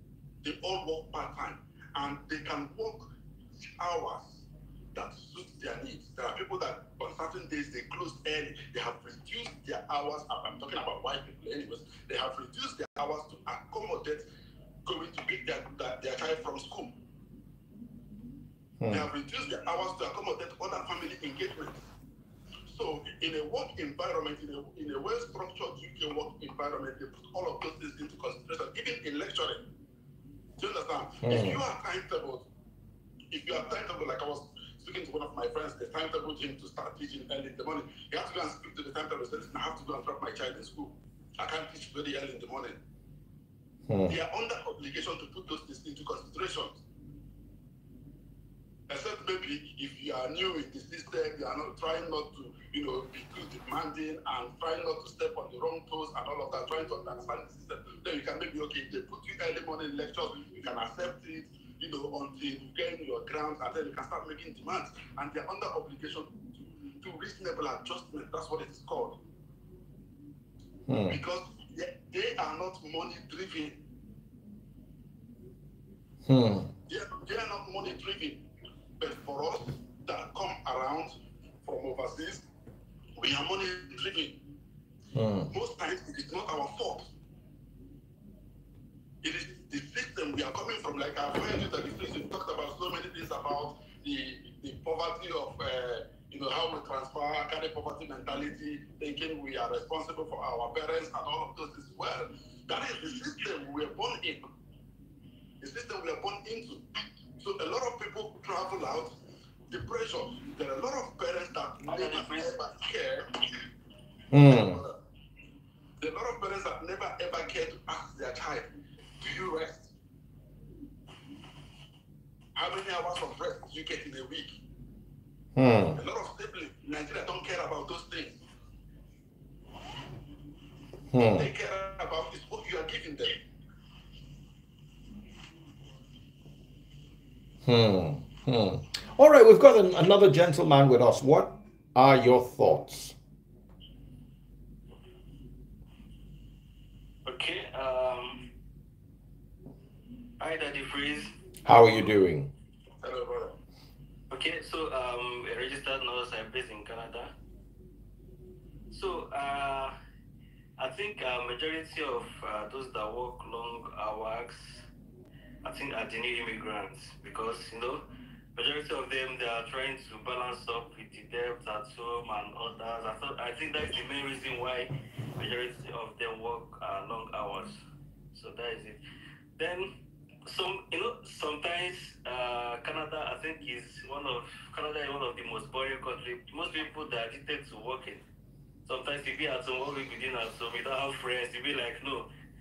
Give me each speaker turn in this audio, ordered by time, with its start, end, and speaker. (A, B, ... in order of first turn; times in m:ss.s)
0:00.4-0:14.3 A
0:14.8-0:16.9 A
0:18.8-0:19.1 B
0:18.9-0:21.9 A
0:22.7-0:29.6 A
0:30.6-0:32.4 A
0:31.2-0:31.6 B
0:33.3-0:42.8 A
0:43.9-0:44.2 B
0:44.1-0:46.8 A
0:48.9-1:09.2 A
1:10.9-1:11.2 B
1:11.1-1:13.8 A
1:16.2-1:16.7 B
1:16.9-1:18.4 A
1:19.0-1:22.4 A
1:23.2-1:24.4 A
1:25.1-1:25.5 B
1:25.5-1:27.1 A
1:29.2-1:44.4 A
1:45.6-1:46.8 A
1:47.4-1:49.1 A
1:49.7-1:53.3 A
1:51.8-1:52.6 C
1:54.3-1:54.8 B
1:54.4-1:55.0 A
1:56.0-1:59.9 A
2:02.6-2:04.6 A
2:05.6-2:06.0 B
2:05.9-2:08.4 A
2:11.1-2:11.5 B
2:11.3-2:13.4 A
2:17.6-2:23.1 B
2:27.2-2:28.5 C
2:30.4-2:32.0 C
2:31.6-2:32.5 B
2:33.0-2:33.6 A
2:34.3-2:37.3 C
2:38.9-2:39.9 C
2:40.8-2:44.8 C
2:45.6-2:48.0 C
2:48.5-2:57.8 C
2:58.3-2:59.0 C
2:59.6-2:59.9 C
3:00.4-3:08.2 C
3:08.8-3:12.3 C